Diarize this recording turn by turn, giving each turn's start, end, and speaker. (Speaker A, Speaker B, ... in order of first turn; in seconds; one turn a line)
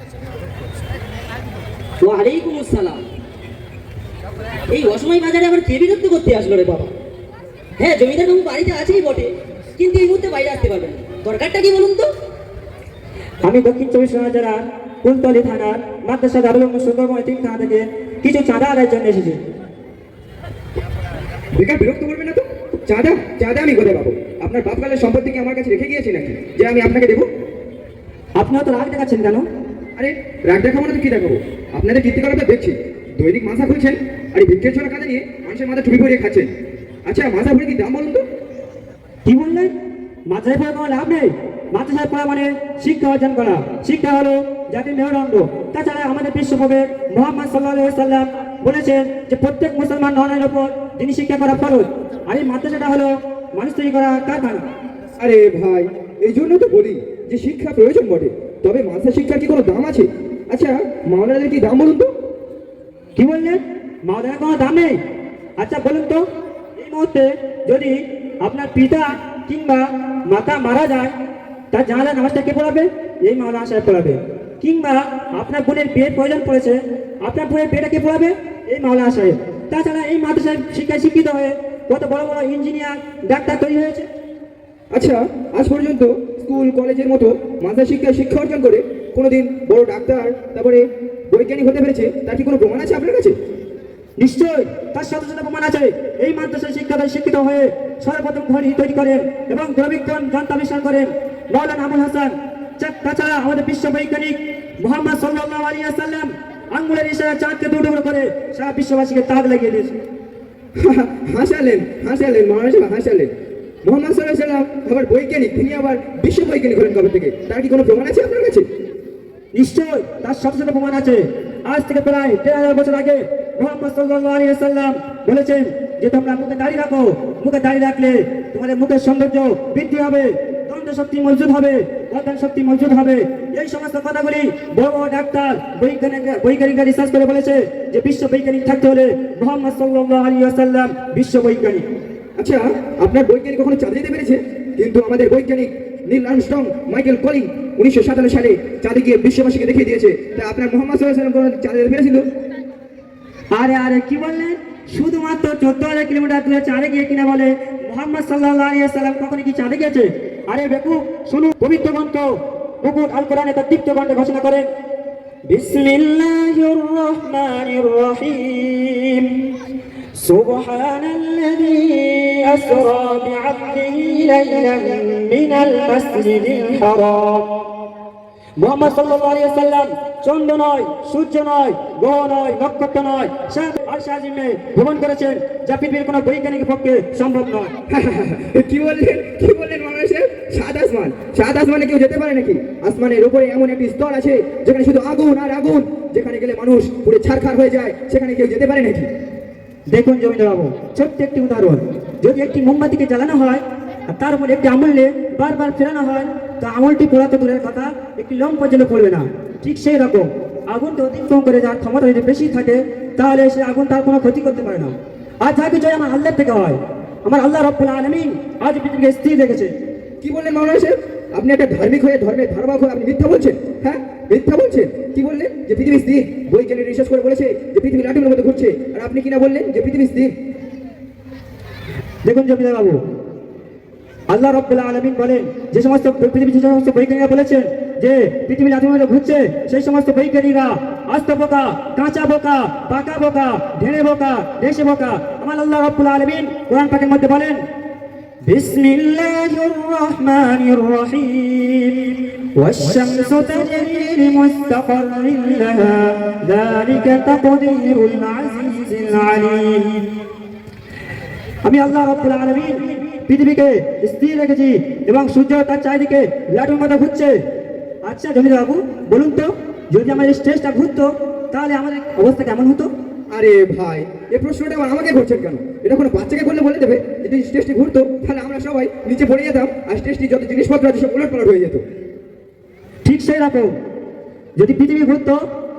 Speaker A: 2.0-3.0
Speaker A: 4.7-6.9
Speaker A: 7.8-12.1
Speaker B: 13.4-19.4
Speaker C: 21.5-27.3
Speaker B: 28.4-29.5
Speaker C: 30.0-36.5
Speaker C: 37.0-38.2
Speaker B: 39.3-39.7
Speaker B: 40.3-54.7
Speaker C: 55.2-62.1
Speaker B: 63.2-65.0
Speaker B: 65.6-66.2
Speaker B: 66.8-71.1
Speaker B: 71.7-84.1
Speaker C: 84.9-93.3
Speaker B: 94.2-109.9
Speaker C: 110.8-113.3
Speaker C: 113.8-118.7
Speaker B: 119.5-141.8
Speaker C: 142.4-152.2
Speaker B: 153.5-162.3
Speaker B: 162.8-164.7
Speaker B: 165.5-169.4
Speaker B: 170.2-177.5
Speaker B: 178.6-187.7
Speaker C: 187.9-199.1
Speaker B: 199.9-219.7
Speaker C: 220.2-230.3
Speaker B: 232.2-233.0
Speaker B: 234.3-247.6
Speaker B: 248.4-260.1
Speaker B: 261.6-267.3
Speaker B: 268.0-272.9
Speaker C: 273.3-281.8
Speaker B: 283.1-283.8
Speaker B: 284.6-285.4